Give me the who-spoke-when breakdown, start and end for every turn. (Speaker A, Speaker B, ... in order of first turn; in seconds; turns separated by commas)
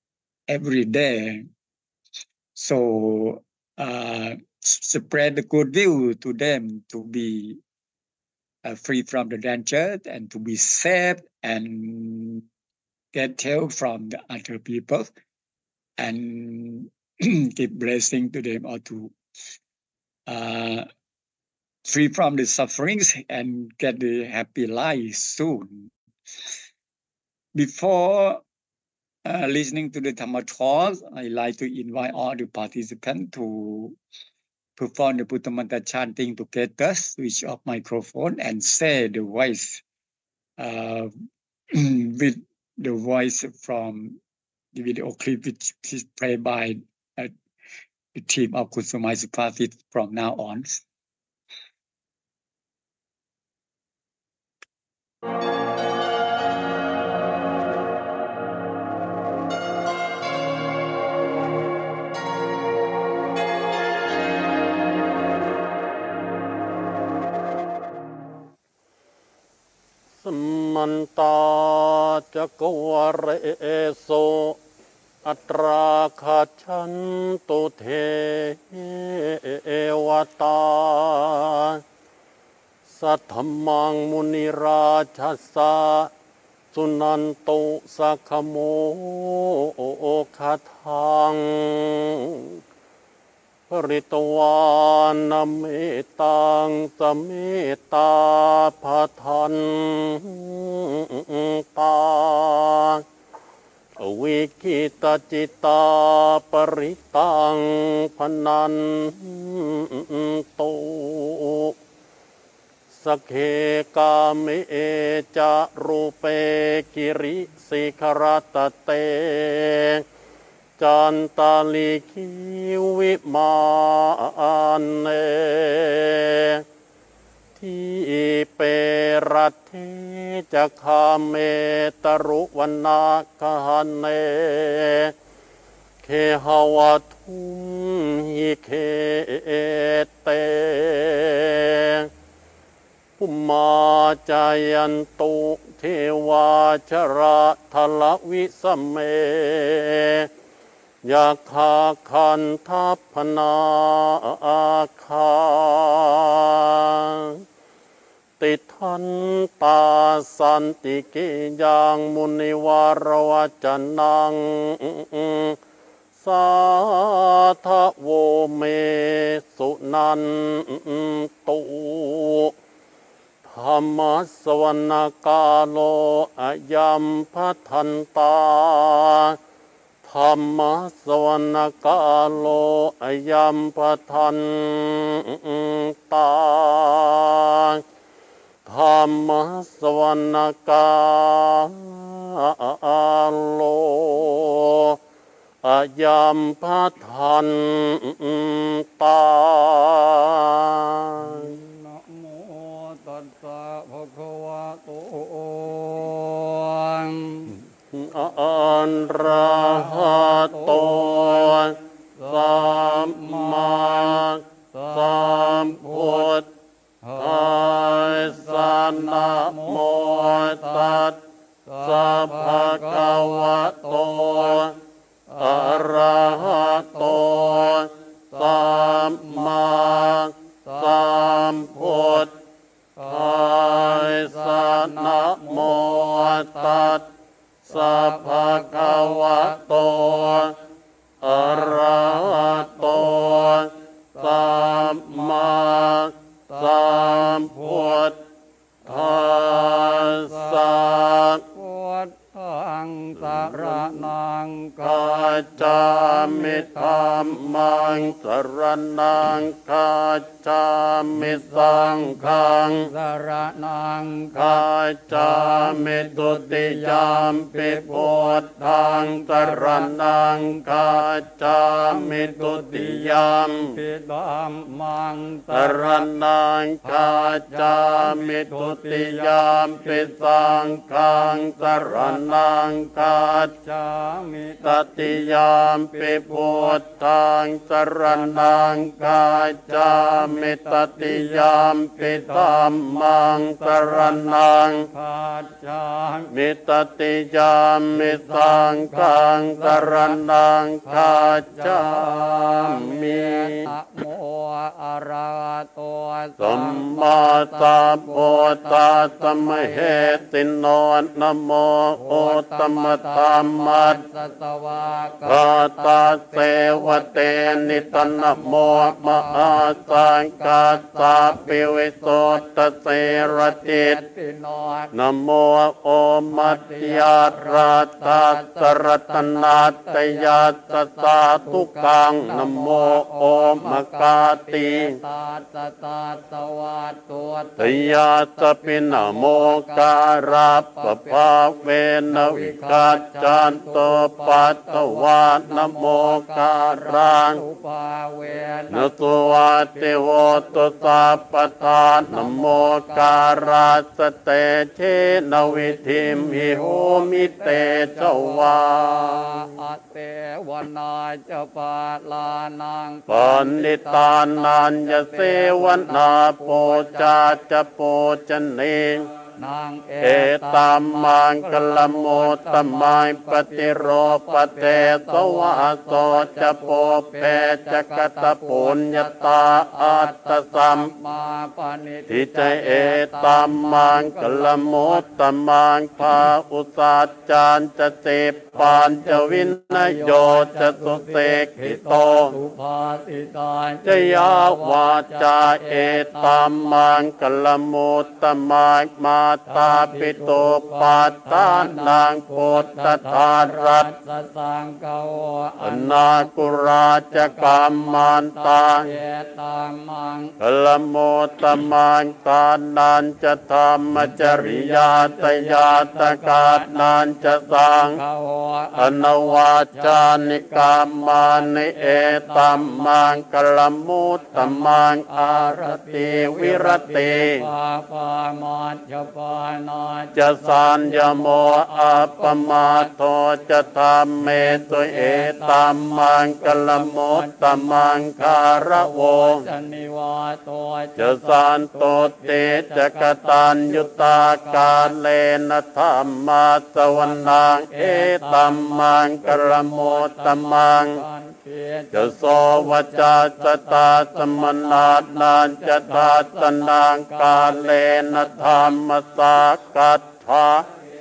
Speaker A: 0.5-1.5, Speaker A: 2.5-7.6, Speaker A: 8.6-12.5, Speaker A: 13.1-15.1, Speaker A: 16.0-19.1, Speaker A: 20.3-20.9, Speaker A: 21.9-25.9, Speaker A: 27.5-28.4, Speaker A: 29.2-34.0, Speaker A: 34.8-39.8, Speaker A: 40.6-41.1, Speaker A: 41.7-44.2, Speaker A: 44.7-47.3, Speaker A: 48.1-50.8, Speaker B: 70.2-74.6, Speaker B: 75.2-81.8, Speaker B: 82.9-86.1, Speaker B: 86.7-92.6, Speaker B: 93.7-103.0, Speaker B: 104.0-111.8, Speaker B: 113.0-120.0, Speaker B: 120.8-126.7, Speaker B: 127.6-135.1, Speaker B: 136.0-142.1, Speaker B: 143.2-150.3, Speaker B: 151.0-157.4, Speaker B: 158.4-165.6, Speaker B: 166.2-172.5, Speaker B: 173.4-179.4, Speaker B: 180.0-187.8, Speaker B: 188.7-195.0, Speaker B: 195.6-201.6, Speaker C: 201.2-207.5, Speaker B: 207.9-216.5, Speaker C: 209.6-216.3, Speaker C: 217.0-221.0, Speaker B: 217.2-221.2, Speaker C: 221.7-224.7, Speaker B: 221.8-224.8, Speaker C: 225.3-225.9, Speaker B: 225.4-232.3, Speaker C: 226.4-227.5, Speaker C: 228.4-231.1, Speaker C: 231.8-232.3, Speaker C: 233.0-237.0, Speaker B: 233.1-237.1, Speaker B: 237.7-240.6, Speaker C: 237.8-239.6, Speaker B: 241.2-248.2, Speaker C: 241.3-243.4, Speaker C: 244.2-245.9, Speaker C: 246.5-248.0, Speaker B: 248.9-251.4, Speaker C: 248.9-250.8, Speaker C: 251.5-257.4, Speaker B: 253.2-254.1, Speaker B: 254.8-262.9, Speaker C: 261.2-262.1, Speaker C: 262.8-269.9, Speaker B: 264.3-273.8, Speaker C: 270.7-271.0, Speaker C: 271.9-276.1, Speaker B: 275.5-283.6, Speaker C: 276.8-280.1, Speaker C: 281.9-282.2, Speaker C: 283.6-285.2, Speaker B: 284.6-294.9, Speaker C: 285.9-286.8, Speaker C: 288.2-288.5, Speaker C: 289.9-291.5, Speaker C: 292.1-292.8, Speaker C: 293.6-296.3, Speaker B: 296.3-303.7, Speaker C: 298.0-300.2, Speaker C: 300.9-310.2, Speaker B: 306.4-314.0, Speaker C: 312.0-324.9, Speaker B: 315.2-324.0, Speaker B: 324.9-335.0, Speaker C: 326.3-341.3, Speaker B: 337.6-347.4, Speaker C: 342.1-349.0, Speaker B: 348.7-359.6, Speaker C: 352.1-353.1, Speaker C: 355.6-367.2, Speaker B: 363.1-369.1, Speaker C: 369.4-385.1, Speaker B: 370.0-380.9, Speaker B: 382.1-392.4, Speaker C: 388.6-396.7, Speaker B: 393.8-403.9, Speaker C: 399.5-406.5, Speaker B: 405.6-409.0, Speaker C: 407.1-410.3, Speaker B: 410.4-418.0, Speaker C: 414.0-422.9, Speaker B: 418.8-427.5, Speaker C: 424.3-432.9, Speaker B: 430.1-439.5, Speaker C: 434.2-437.7, Speaker C: 438.7-444.9, Speaker B: 441.0-451.0, Speaker C: 447.1-458.8, Speaker B: 451.9-460.7